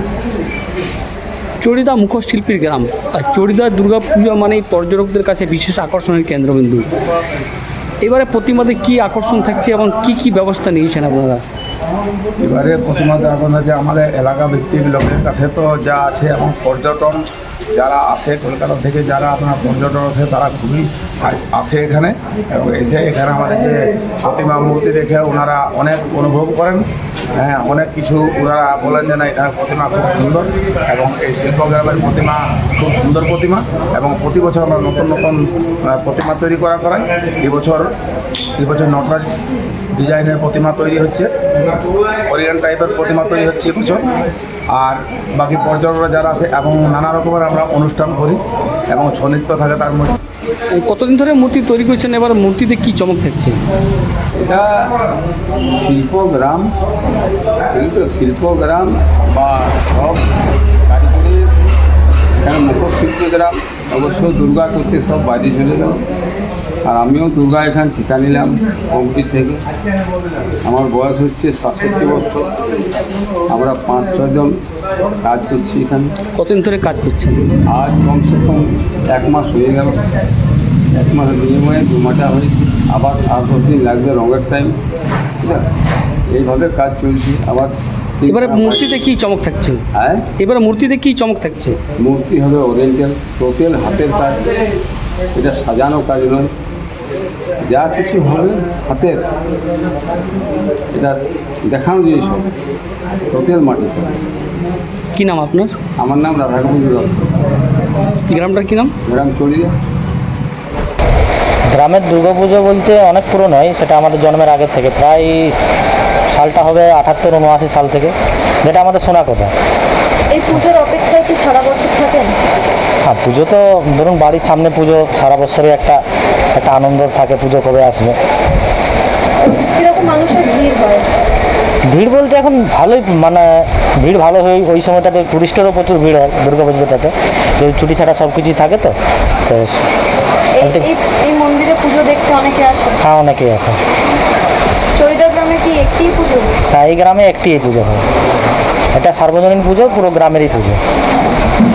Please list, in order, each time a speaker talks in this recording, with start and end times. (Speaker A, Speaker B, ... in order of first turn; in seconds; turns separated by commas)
Speaker A: 1.6-6.9, Speaker A: 8.0-11.4, Speaker B: 12.4-17.2, Speaker B: 17.7-26.8, Speaker B: 27.4-37.9, Speaker B: 38.6-39.3, Speaker B: 39.9-41.3, Speaker B: 42.2-44.0, Speaker B: 44.7-50.1, Speaker A: 50.7-53.6, Speaker C: 54.4-54.9, Speaker C: 55.8-56.7, Speaker C: 57.7-60.3, Speaker C: 60.9-61.7, Speaker C: 62.4-66.0, Speaker C: 66.8-69.6, Speaker C: 70.6-72.6, Speaker C: 73.5-74.6, Speaker C: 75.2-76.2, Speaker A: 76.4-77.4, Speaker C: 77.7-80.0, Speaker C: 80.9-84.8, Speaker C: 85.4-85.7, Speaker C: 86.3-88.9, Speaker A: 88.2-89.8, Speaker C: 89.9-90.3, Speaker A: 90.4-91.8, Speaker C: 92.0-94.5, Speaker C: 95.3-96.5, Speaker C: 97.7-99.3, Speaker C: 100.9-102.5, Speaker C: 103.3-104.2, Speaker A: 105.1-105.8, Speaker C: 106.0-107.2, Speaker A: 108.3-108.9, Speaker C: 109.0-109.7, Speaker D: 111.7-115.5, Speaker D: 116.3-119.5, Speaker E: 120.3-122.4, Speaker D: 123.0-126.0, Speaker D: 126.5-128.2, Speaker E: 129.4-131.1, Speaker D: 131.9-138.9, Speaker D: 139.4-139.8, Speaker D: 140.6-140.9, Speaker E: 140.6-143.0, Speaker D: 143.0-143.8, Speaker E: 144.9-146.5, Speaker D: 146.7-148.1, Speaker D: 148.9-150.8